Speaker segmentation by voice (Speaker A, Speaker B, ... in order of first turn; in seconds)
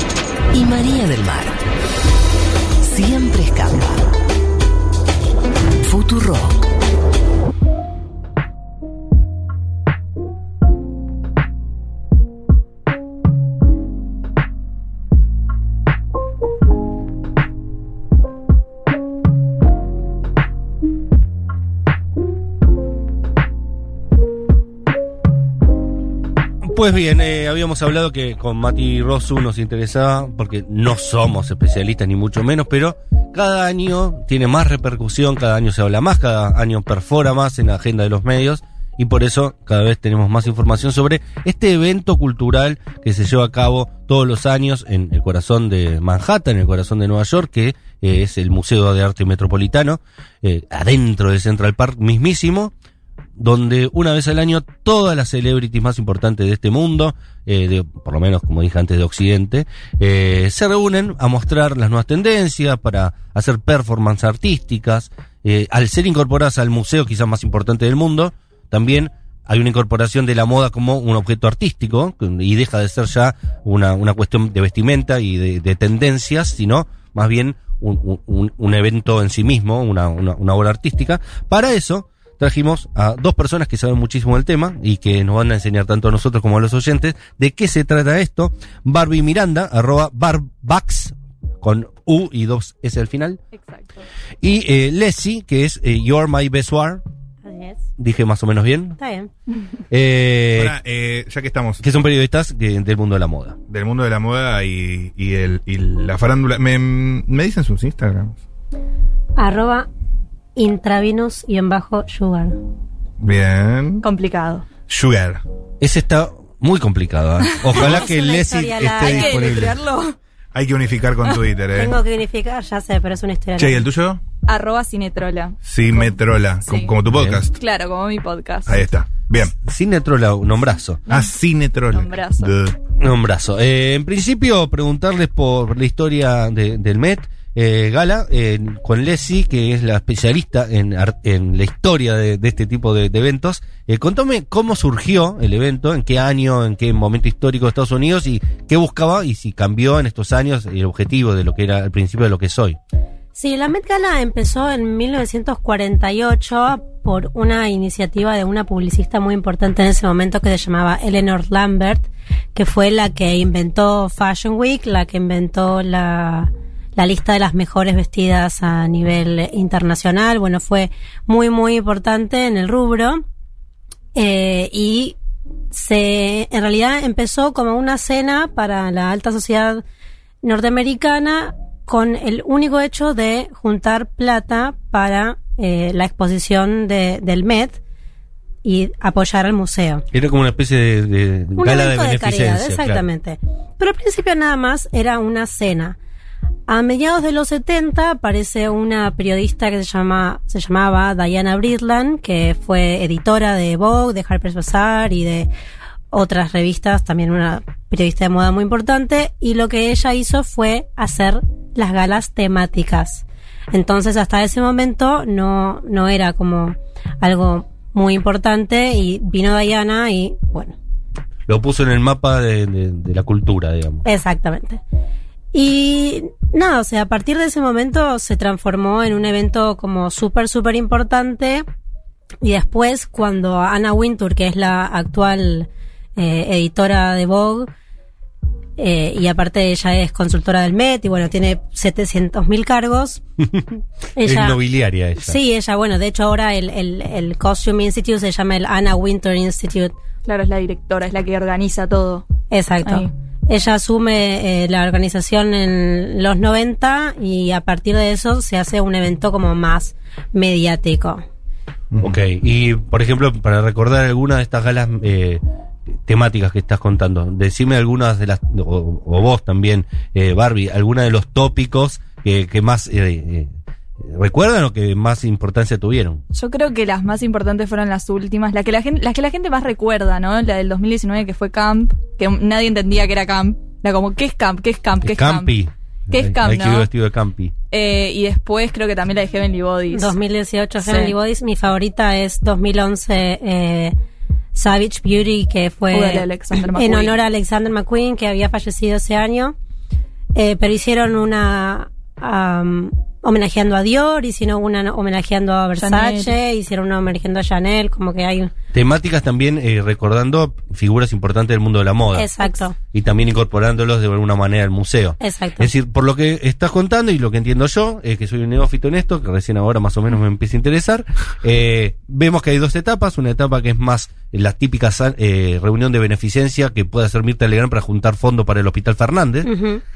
Speaker A: 0.5-1.6, 2.8-4.1, 5.8-6.6
Speaker B: 26.6-52.7, 53.4-93.4, 94.4-97.0, 98.0-99.0, 99.9-100.8, 101.8-103.6, 115.8-119.8, 127.1-127.4, 129.6-131.0, 133.0-152.8, 190.1-193.0, 221.5-224.0, 244.2-245.4, 262.0-265.4, 266.1-276.2, 285.0-287.5, 308.7-312.3, 312.9-329.5
Speaker C: 93.5-94.0, 114.0-114.7, 119.0-120.2, 124.5-126.9, 127.5-128.8, 131.1-131.4, 131.9-132.5, 250.2-252.2, 252.8-253.1, 276.3-285.5, 286.1-286.9, 287.7-290.1, 290.8-291.1, 295.9-297.2, 305.8-306.3
Speaker D: 97.4-97.8, 99.0-99.3, 109.3-109.9, 110.5-112.6, 117.8-119.7, 121.7-123.8, 153.3-173.2, 174.1-175.2, 175.7-179.8, 180.4-187.8, 188.6-190.0, 191.6-196.0, 196.7-205.5, 206.1-220.8, 224.0-224.8, 225.5-231.6, 232.4-237.7, 238.8-243.2, 244.2-244.6, 245.2-249.9, 252.5-261.2, 289.9-293.9, 294.5-299.6, 300.3-308.5, 312.1-312.8, 315.2-315.7, 329.4-329.8
Speaker E: 100.5-102.0, 103.7-108.4, 113.2-114.0, 114.9-115.4, 117.7-118.0, 120.5-122.0, 123.6-124.2, 125.6-127.6, 128.7-129.5, 131.1-132.8, 261.9-262.2